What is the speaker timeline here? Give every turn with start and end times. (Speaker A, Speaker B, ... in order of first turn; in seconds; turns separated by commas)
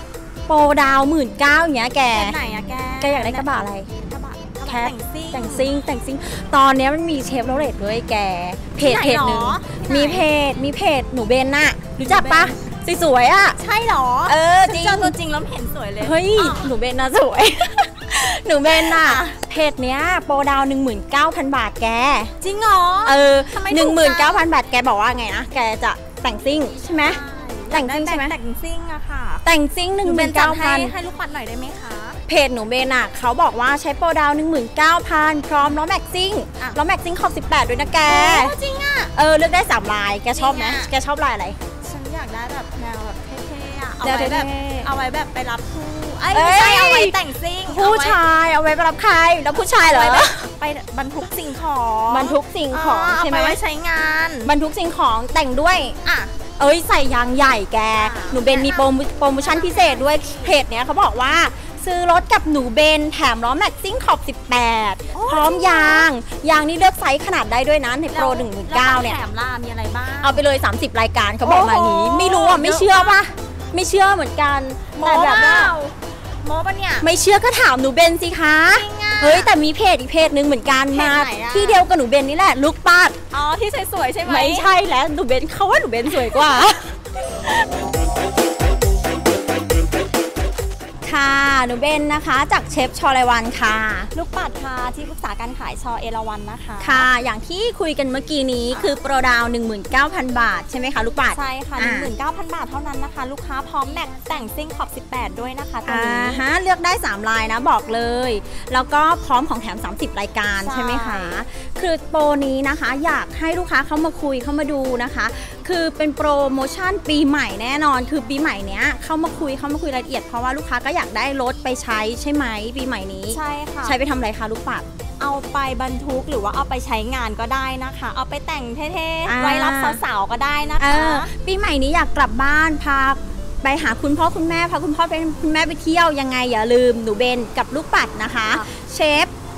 Speaker A: 0.5-3.9, Speaker B: 2.1-5.7, Speaker A: 4.7-13.6, Speaker B: 8.8-10.3, Speaker B: 12.0-12.6, Speaker B: 13.6-16.7, Speaker A: 14.3-15.2, Speaker A: 16.0-22.3, Speaker B: 18.7-19.4, Speaker B: 22.4-24.5, Speaker A: 23.1-28.4, Speaker B: 26.9-29.4, Speaker A: 29.4-30.9, Speaker B: 30.0-32.2, Speaker A: 32.3-38.5, Speaker B: 38.0-39.1, Speaker A: 39.1-41.6, Speaker B: 40.3-40.9, Speaker B: 41.8-48.2, Speaker A: 44.0-44.9, Speaker A: 46.3-50.5, Speaker B: 49.8-54.5, Speaker A: 52.1-53.6, Speaker A: 54.5-56.0, Speaker B: 56.0-56.3, Speaker A: 56.6-69.2, Speaker B: 58.0-60.6, Speaker B: 65.1-66.1, Speaker B: 68.1-70.4, Speaker A: 70.2-75.8, Speaker B: 71.4-73.2, Speaker B: 75.0-77.1, Speaker A: 77.0-83.2, Speaker B: 78.7-79.5, Speaker B: 80.9-81.8, Speaker B: 83.3-84.7, Speaker A: 84.2-87.0, Speaker A: 91.0-94.1, Speaker B: 94.1-97.1, Speaker A: 96.8-102.1, Speaker B: 98.7-99.0, Speaker B: 101.3-106.4, Speaker A: 105.9-124.9, Speaker B: 110.6-111.4, Speaker B: 123.3-124.0, Speaker B: 125.2-131.3, Speaker A: 129.3-130.0, Speaker A: 130.8-139.3